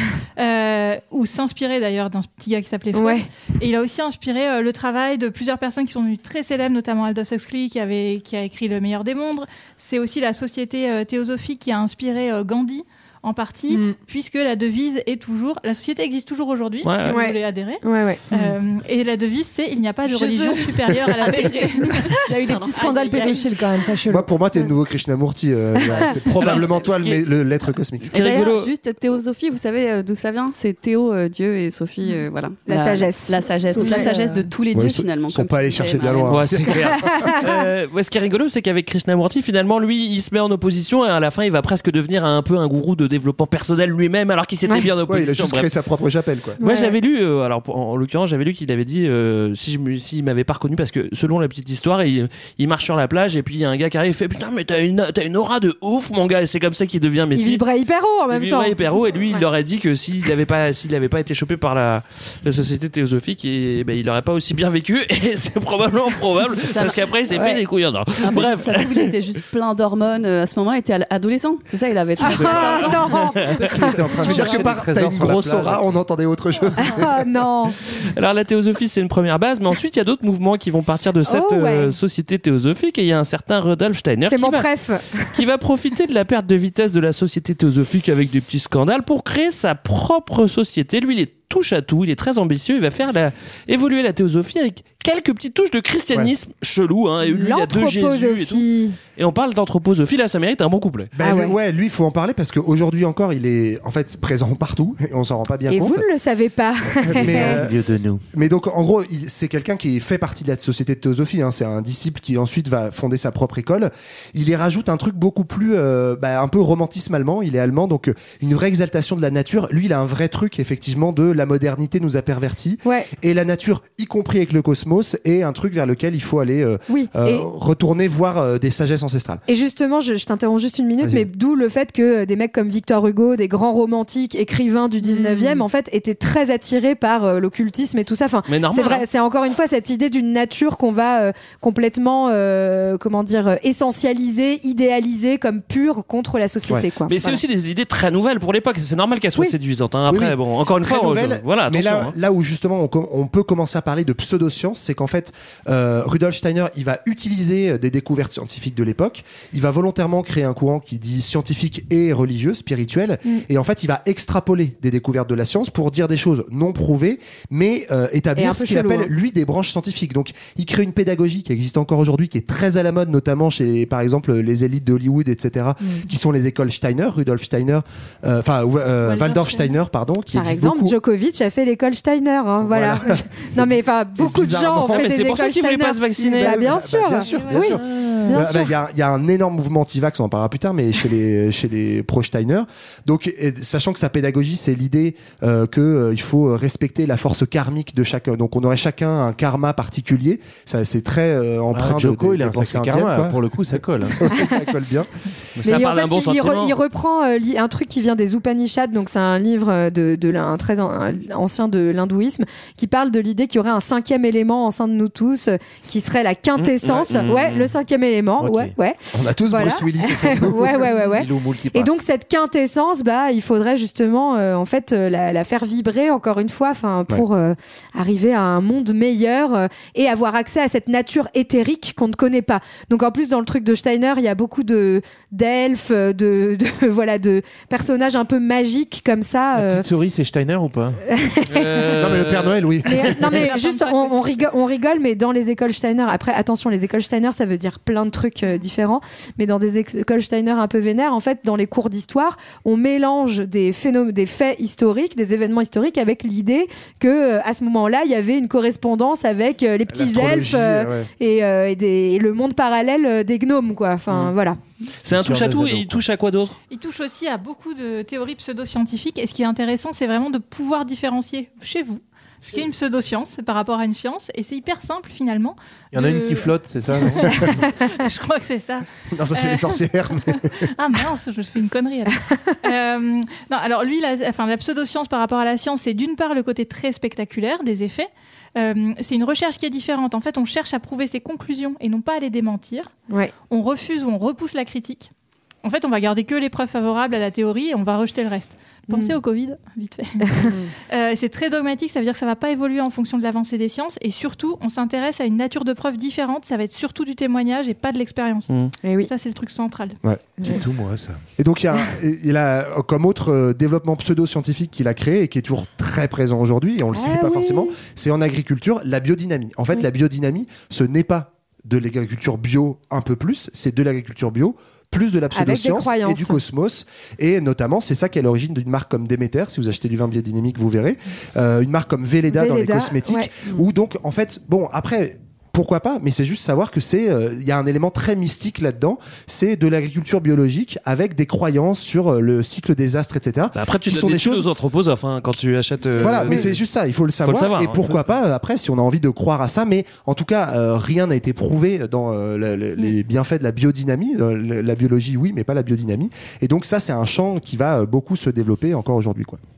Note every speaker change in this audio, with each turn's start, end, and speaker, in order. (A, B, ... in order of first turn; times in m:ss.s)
0:00.4-0:23.5 A
0:02.9-0:03.3 B
0:13.7-0:14.0 C
0:16.8-0:17.2 D
0:17.1-0:18.2 B
0:18.3-0:18.6 C
0:21.3-0:24.7 C
0:22.5-0:23.2 E
0:24.1-0:28.1 F
0:26.4-0:27.2 D
0:28.0-0:28.7 D
0:28.1-0:36.5 E
0:32.7-0:34.1 B
0:33.6-0:34.5 C
0:34.7-0:37.2 F
0:36.3-0:45.7 D
0:45.1-0:46.6 F
0:46.6-0:46.9 B
0:46.6-0:57.6 D
0:57.4-0:59.4 B
0:58.3-1:09.1 D
1:06.7-1:07.1 E
1:08.2-1:13.4 E
1:12.2-1:14.5 B
1:12.4-1:12.8 G
1:12.4-1:13.6 D
1:13.7-1:16.0 G
1:13.8-1:17.2 F
1:16.8-1:17.8 B
1:18.0-1:24.7 D
1:21.2-1:21.9 B
1:24.2-1:25.4 B
1:25.3-1:38.6 D
1:37.2-1:39.0 B
1:39.2-1:41.1 D
1:41.2-1:46.0 F
1:41.2-1:41.6 B
1:45.7-1:47.6 B
1:47.0-1:47.8 F
1:47.1-1:48.2 G
1:48.3-2:09.4 F
2:02.8-2:03.1 B
2:06.9-2:07.4 B
2:09.5-2:27.4 B
2:11.0-2:11.3 F
2:15.0-2:15.6 C
2:18.5-2:19.0 D
2:27.1-2:32.2 D
2:30.1-3:01.0 F
2:48.4-2:49.1 B
3:00.3-3:08.7 B
3:02.6-3:05.1 F
3:04.8-3:06.8 D
3:06.3-3:23.4 F
3:07.4-3:08.2 D
3:21.7-3:24.2 G
3:24.2-3:25.1 F
3:24.2-3:24.6 B
3:25.6-3:26.7 D
3:25.6-3:59.8 B
3:36.6-3:37.7 D
3:36.8-3:37.3 F
3:38.4-3:38.7 G
3:39.1-3:40.9 F
3:41.0-3:42.0 G
3:59.6-4:01.0 G
4:01.0-4:01.9 B
4:01.5-4:03.1 D
4:02.0-4:03.4 F
4:02.8-4:24.6 B
4:03.5-4:04.4 A
4:19.9-4:21.1 F
4:25.0-4:26.6 D
4:25.1-4:26.0 G
4:26.7-4:52.9 A
4:35.9-4:37.6 G
4:39.1-4:40.5 F
4:53.5-4:55.1 A
4:55.6-5:10.0 A
4:58.9-4:59.2 B
5:00.3-5:00.5 B
5:08.8-5:09.1 B
5:10.5-5:11.2 G
5:11.4-5:44.5 F
5:16.9-5:17.7 B
5:25.4-5:26.4 B
5:32.3-5:33.3 B
5:43.5-5:46.5 D
5:46.0-5:59.4 F
5:47.2-5:48.0 D